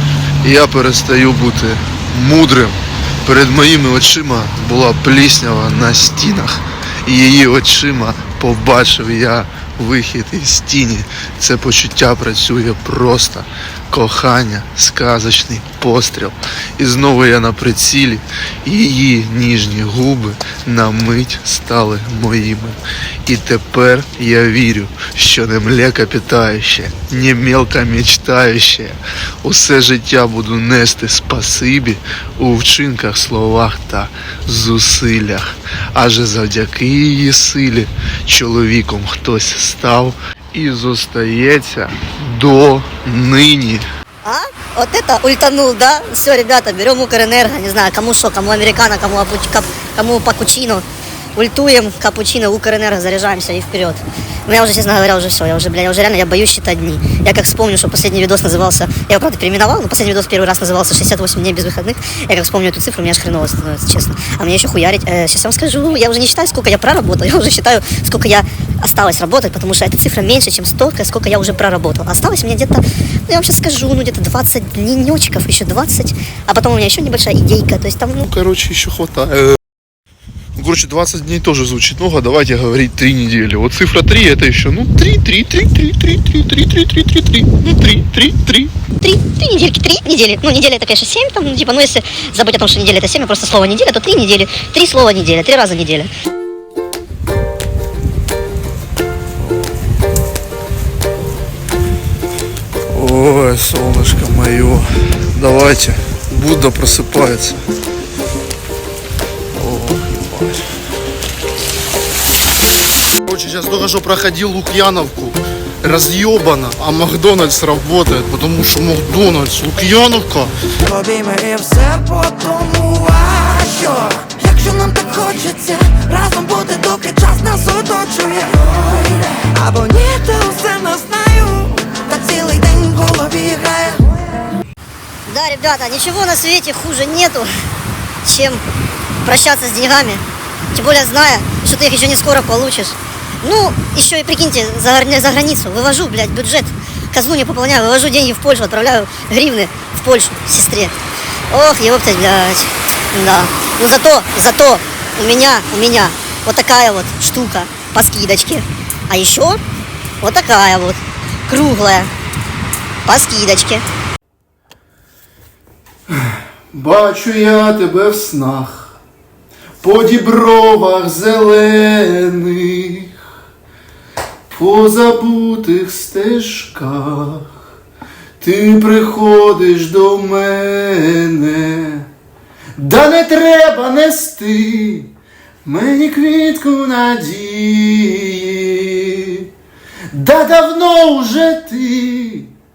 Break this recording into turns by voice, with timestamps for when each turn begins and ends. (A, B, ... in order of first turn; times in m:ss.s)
0:00.4-0:43.8 A
0:44.2-1:18.3 B
1:18.2-1:19.6 A
1:20.6-1:28.7 A
1:29.0-1:36.1 B
1:42.9-1:47.6 A
1:49.5-1:50.7 A
1:53.2-2:00.5 A
2:00.9-2:14.2 C
2:15.3-2:17.5 B
2:18.2-2:18.6 B
2:19.2-2:31.0 B
2:31.5-2:39.6 B
2:40.2-2:42.1 B
2:43.1-2:43.8 B
2:46.1-2:49.0 A
2:49.8-2:53.2 A
2:54.5-2:57.6 A
2:58.4-3:02.1 A
3:02.8-3:05.1 A
3:05.6-3:09.5 A
3:10.1-3:12.5 A